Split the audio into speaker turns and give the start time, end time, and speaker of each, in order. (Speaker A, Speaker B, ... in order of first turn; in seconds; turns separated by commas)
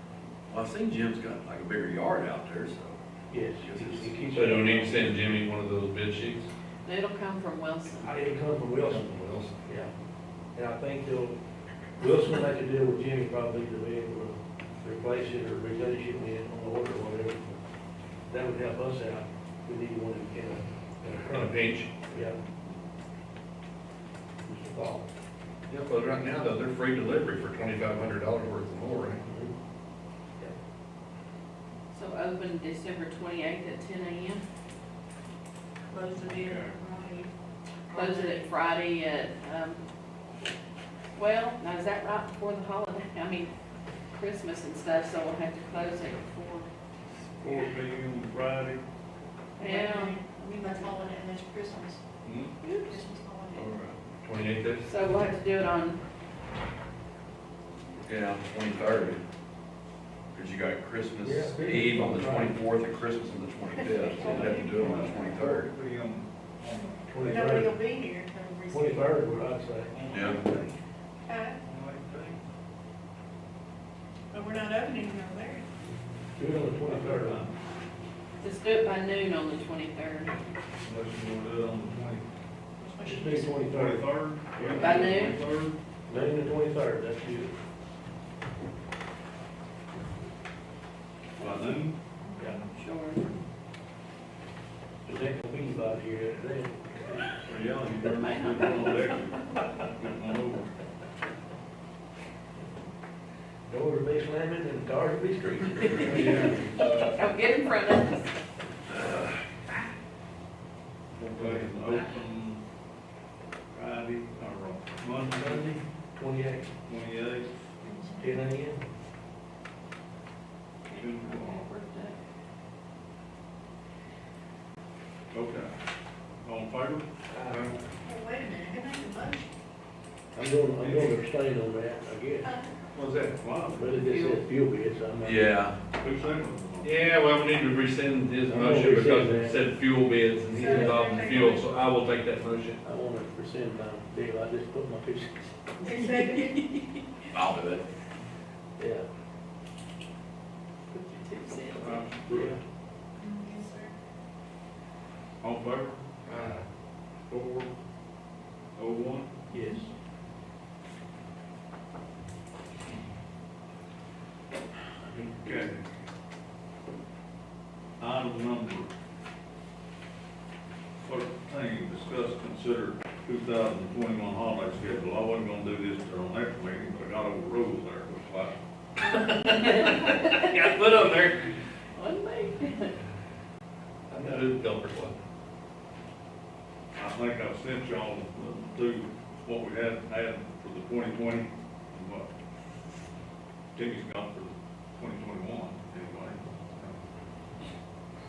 Speaker A: 0.5-3.0, Speaker B: 3.3-5.2, Speaker A: 3.6-4.1, Speaker C: 4.3-6.5, Speaker D: 6.8-8.1, Speaker B: 8.0-9.1, Speaker C: 8.8-9.5, Speaker B: 9.6-9.9, Speaker B: 10.5-11.3, Speaker B: 12.0-17.4, Speaker B: 18.3-22.4, Speaker C: 21.0-21.9, Speaker B: 24.4-25.1, Speaker C: 25.7-29.2, Speaker B: 29.2-29.5, Speaker D: 31.9-34.4, Speaker E: 35.9-37.3, Speaker F: 36.4-36.7, Speaker E: 37.9-38.5, Speaker D: 37.9-39.8, Speaker D: 41.1-43.5, Speaker D: 44.1-46.7, Speaker F: 47.4-48.8, Speaker D: 49.6-51.0, Speaker E: 49.6-52.0, Speaker F: 52.2-52.5, Speaker D: 52.6-53.1, Speaker E: 52.9-53.7, Speaker A: 53.5-54.0, Speaker C: 54.2-54.9, Speaker D: 54.9-56.0, Speaker A: 58.0-59.2, Speaker A: 60.3-65.7, Speaker B: 61.2-62.6, Speaker E: 63.7-65.4, Speaker F: 64.1-67.6, Speaker B: 67.1-67.7, Speaker E: 67.2-69.2, Speaker B: 68.7-69.9, Speaker F: 69.9-70.8, Speaker A: 70.1-70.4, Speaker E: 71.2-71.6, Speaker F: 71.6-72.4, Speaker E: 74.3-75.6, Speaker B: 76.3-77.4, Speaker F: 76.8-77.5, Speaker D: 78.4-80.3, Speaker F: 80.8-82.3, Speaker E: 82.8-83.6, Speaker B: 83.0-85.1, Speaker F: 83.6-85.8, Speaker D: 84.8-85.4, Speaker B: 86.1-87.5, Speaker F: 91.4-92.0, Speaker D: 92.6-93.2, Speaker B: 95.0-97.3, Speaker F: 97.4-100.7, Speaker D: 98.0-99.2, Speaker B: 103.7-106.5, Speaker C: 106.0-107.1, Speaker D: 106.2-108.3, Speaker F: 111.1-112.6, Speaker F: 113.7-115.8, Speaker B: 115.2-116.7, Speaker F: 116.8-117.5, Speaker E: 117.8-118.4, Speaker B: 118.2-118.8, Speaker D: 120.9-122.2, Speaker F: 120.9-121.7, Speaker F: 125.3-125.7, Speaker F: 126.4-127.1, Speaker C: 127.4-127.8, Speaker E: 128.0-129.4, Speaker B: 130.3-132.5, Speaker F: 130.8-131.2, Speaker E: 132.4-132.7, Speaker C: 132.9-133.4, Speaker F: 133.4-134.0, Speaker B: 133.7-135.6, Speaker D: 134.0-134.4, Speaker A: 135.2-135.8, Speaker F: 135.9-137.0, Speaker C: 136.8-142.8, Speaker B: 138.4-139.6, Speaker B: 140.5-141.2, Speaker E: 140.5-141.7, Speaker B: 142.8-145.5, Speaker E: 145.8-146.8, Speaker D: 145.9-146.3, Speaker A: 147.3-147.8, Speaker B: 148.8-149.1, Speaker D: 150.9-152.1, Speaker F: 151.8-152.6, Speaker B: 152.3-152.6, Speaker E: 153.2-153.9, Speaker F: 155.4-156.0, Speaker C: 156.3-156.6, Speaker F: 157.3-157.7, Speaker F: 158.7-159.4, Speaker B: 159.5-159.9, Speaker B: 165.1-165.7, Speaker F: 165.4-165.8, Speaker F: 168.0-168.9, Speaker F: 171.0-178.6, Speaker C: 179.2-181.5, Speaker D: 179.4-180.4, Speaker D: 181.9-182.9, Speaker C: 184.1-185.2, Speaker F: 186.9-192.3, Speaker F: 193.7-197.0